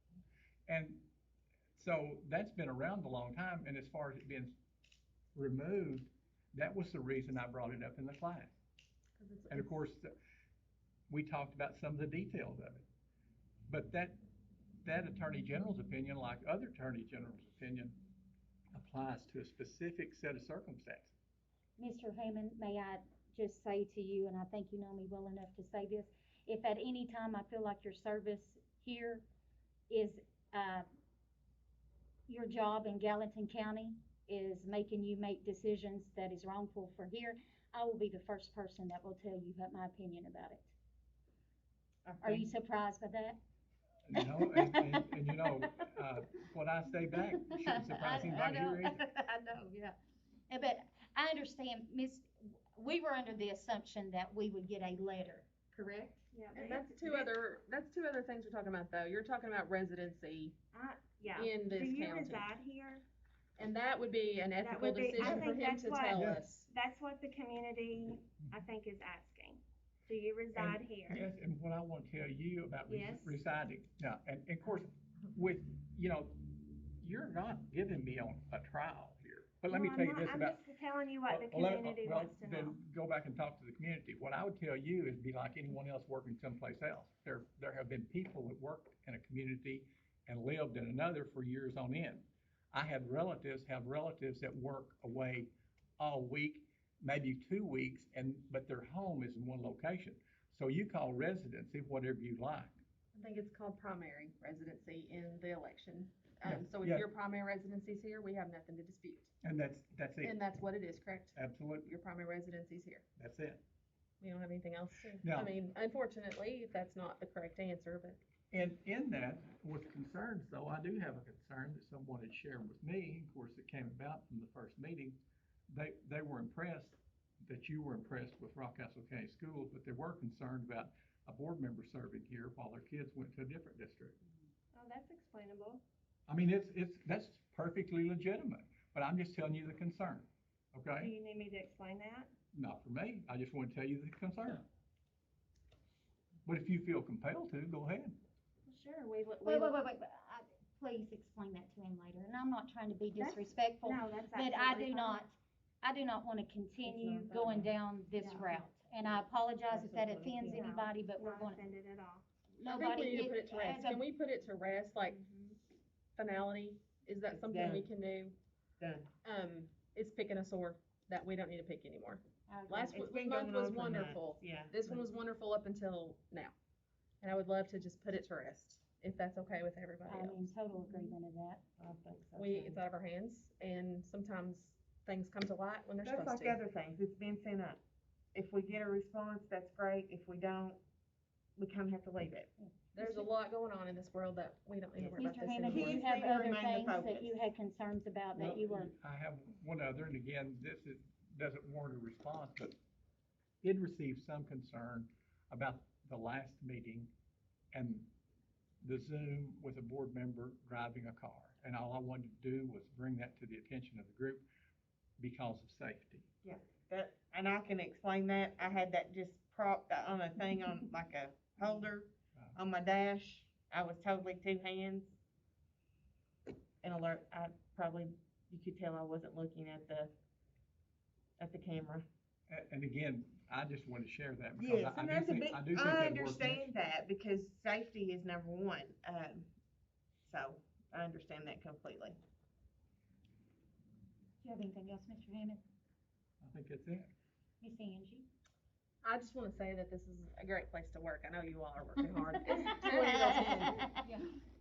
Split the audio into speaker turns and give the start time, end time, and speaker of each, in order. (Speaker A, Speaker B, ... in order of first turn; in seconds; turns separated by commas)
Speaker A: 0.7-1.0, Speaker A: 1.8-4.5, Speaker A: 5.3-8.5, Speaker B: 9.2-9.8, Speaker A: 9.5-10.1, Speaker A: 11.1-12.9, Speaker A: 13.7-14.2, Speaker A: 14.8-18.0, Speaker A: 18.7-21.1, Speaker C: 21.8-29.2, Speaker C: 29.9-30.9, Speaker C: 32.3-40.7, Speaker D: 42.0-42.5, Speaker C: 42.2-43.4, Speaker A: 44.1-49.0, Speaker C: 44.2-45.7, Speaker C: 47.4-50.0, Speaker C: 50.5-55.5, Speaker D: 55.8-56.2, Speaker E: 56.3-57.3, Speaker B: 56.5-60.6, Speaker E: 60.7-63.0, Speaker B: 61.4-62.5, Speaker B: 63.6-66.7, Speaker E: 64.6-71.2, Speaker D: 65.2-65.5, Speaker A: 66.1-66.4, Speaker A: 70.5-80.6, Speaker E: 72.9-73.4, Speaker E: 79.7-82.8, Speaker A: 81.3-102.8, Speaker B: 103.2-109.3, Speaker A: 106.4-107.0, Speaker A: 109.4-110.4, Speaker B: 110.2-113.0, Speaker A: 111.4-111.9, Speaker A: 113.2-113.6, Speaker B: 114.2-118.2, Speaker A: 115.2-115.5, Speaker A: 118.5-134.2, Speaker E: 134.7-135.8, Speaker A: 136.3-141.1, Speaker E: 141.0-142.3, Speaker A: 142.5-144.7, Speaker A: 146.4-148.2, Speaker E: 148.7-149.7, Speaker C: 149.4-161.6, Speaker E: 153.2-155.2, Speaker D: 156.8-157.7, Speaker D: 159.7-160.7, Speaker E: 160.5-162.3, Speaker C: 162.6-164.0, Speaker B: 162.7-165.2, Speaker E: 165.1-165.6, Speaker B: 166.2-168.4, Speaker D: 167.3-167.9, Speaker D: 168.8-169.1, Speaker B: 169.2-176.5, Speaker C: 172.5-172.9, Speaker D: 172.9-175.1, Speaker B: 177.2-180.5, Speaker C: 180.1-181.6, Speaker D: 180.8-181.2, Speaker D: 181.8-182.8, Speaker B: 182.4-186.6, Speaker D: 186.0-187.8, Speaker D: 188.3-190.8, Speaker D: 191.6-192.5, Speaker C: 192.6-193.0, Speaker B: 192.9-196.0, Speaker D: 195.0-197.4, Speaker C: 195.2-198.9, Speaker A: 198.4-202.8, Speaker A: 203.6-207.1, Speaker A: 207.7-208.1, Speaker A: 208.8-214.5, Speaker A: 215.2-216.2, Speaker D: 216.4-225.2, Speaker D: 226.8-230.1, Speaker D: 231.4-232.1, Speaker A: 232.5-236.7, Speaker D: 234.6-239.5, Speaker D: 240.2-242.2, Speaker C: 244.4-245.6, Speaker A: 246.4-247.1, Speaker C: 247.6-248.3, Speaker B: 249.0-254.0, Speaker C: 252.5-254.2